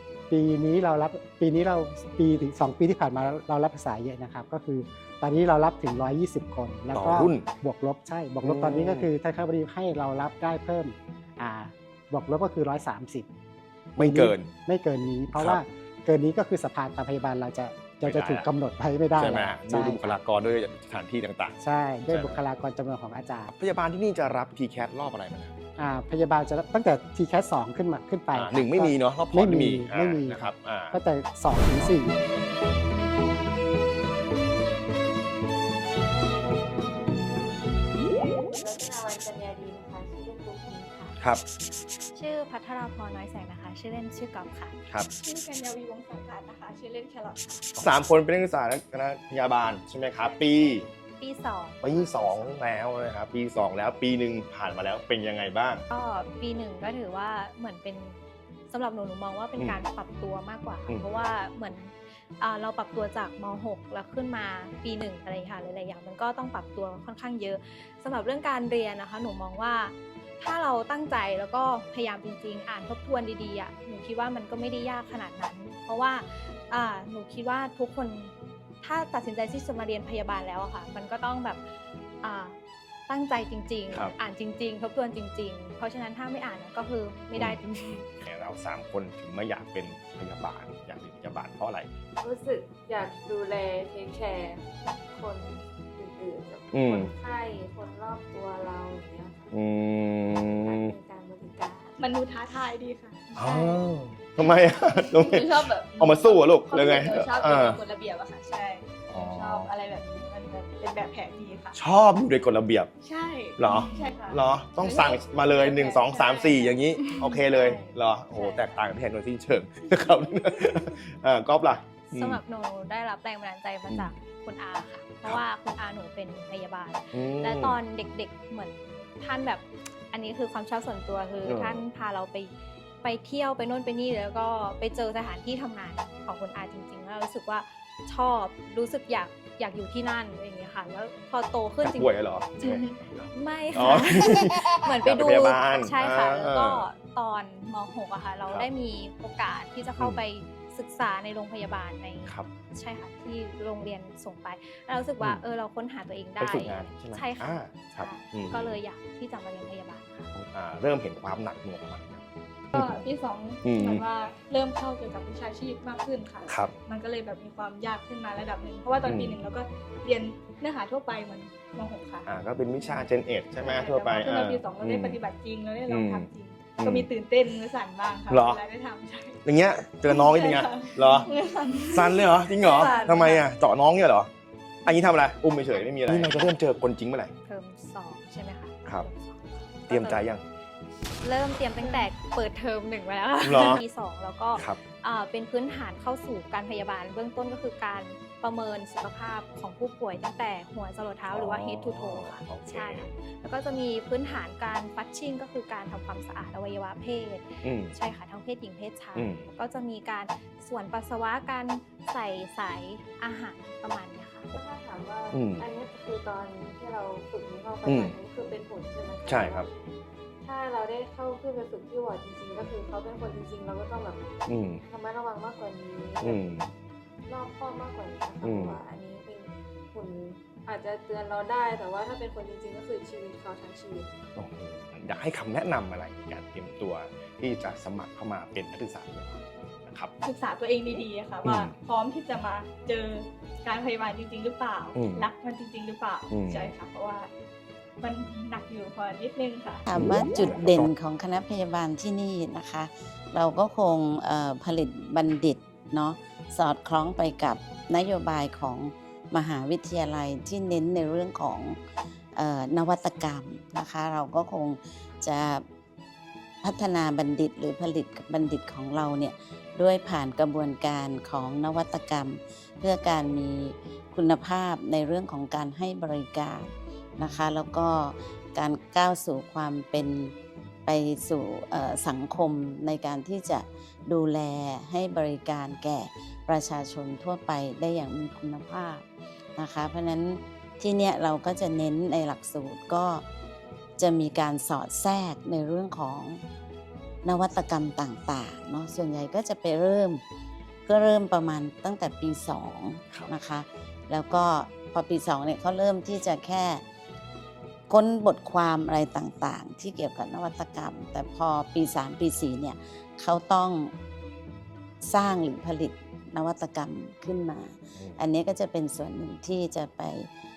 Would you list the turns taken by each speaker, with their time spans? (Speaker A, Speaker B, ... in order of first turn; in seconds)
Speaker A: 0.3-13.2, 14.0-20.2, 21.6-23.5, 25.8-32.1
Speaker B: 6.9-7.5, 8.4-9.1, 13.9-14.5, 15.3-15.6, 18.0-18.5, 19.1-22.4, 23.5-25.5, 28.3-31.0, 47.8-50.9, 51.8-55.8, 88.2-91.9, 96.7-97.1, 99.5-100.9, 103.3-107.8, 109.1-109.7, 111.7-112.9, 113.6-122.4, 127.1-127.8, 131.4-131.8, 141.8-146.8, 156.4-158.8, 160.3-163.0, 163.6-164.0, 166.5-166.7, 169.0-169.4, 172.2-175.2, 175.9-177.1, 178.3-178.6, 179.4-181.3, 181.9-184.3, 184.8-187.3, 189.9-190.4, 193.4-193.8, 201.3-203.1, 207.6-207.9, 209.1-209.5, 215.3-215.6, 217.9-218.1, 219.2-219.7, 224.5-224.8, 226.2-226.7, 228.4-228.8, 234.3-240.1, 241.4-241.8, 244.9-245.3, 246.3-246.7, 249.9-250.9
Speaker C: 38.1-41.1, 92.2-99.5, 100.6-102.0, 214.5-219.7, 220.4-224.3, 224.9-226.4, 227.3-234.1
Speaker D: 42.1-44.7, 51.2-52.6, 55.9-58.2, 58.7-81.6, 82.2-82.5, 83.1-88.0, 118.3-118.7, 122.1-160.3, 186.1-186.4, 187.4-190.3, 191.2-214.5
Speaker E: 45.2-47.7, 50.2-50.9, 102.0-103.8, 104.4-111.8, 113.0-118.0, 162.7-173.1, 173.6-179.4, 180.1-183.4, 191.8-192.1, 240.2-247.3, 248.0-249.8
Speaker F: 249.9-261.8, 262.3-265.6, 266.6-280.3, 280.9-289.0, 289.6-293.2, 294.0-296.4, 297.2-300.2, 300.9-306.8, 307.9-313.9, 315.0-320.3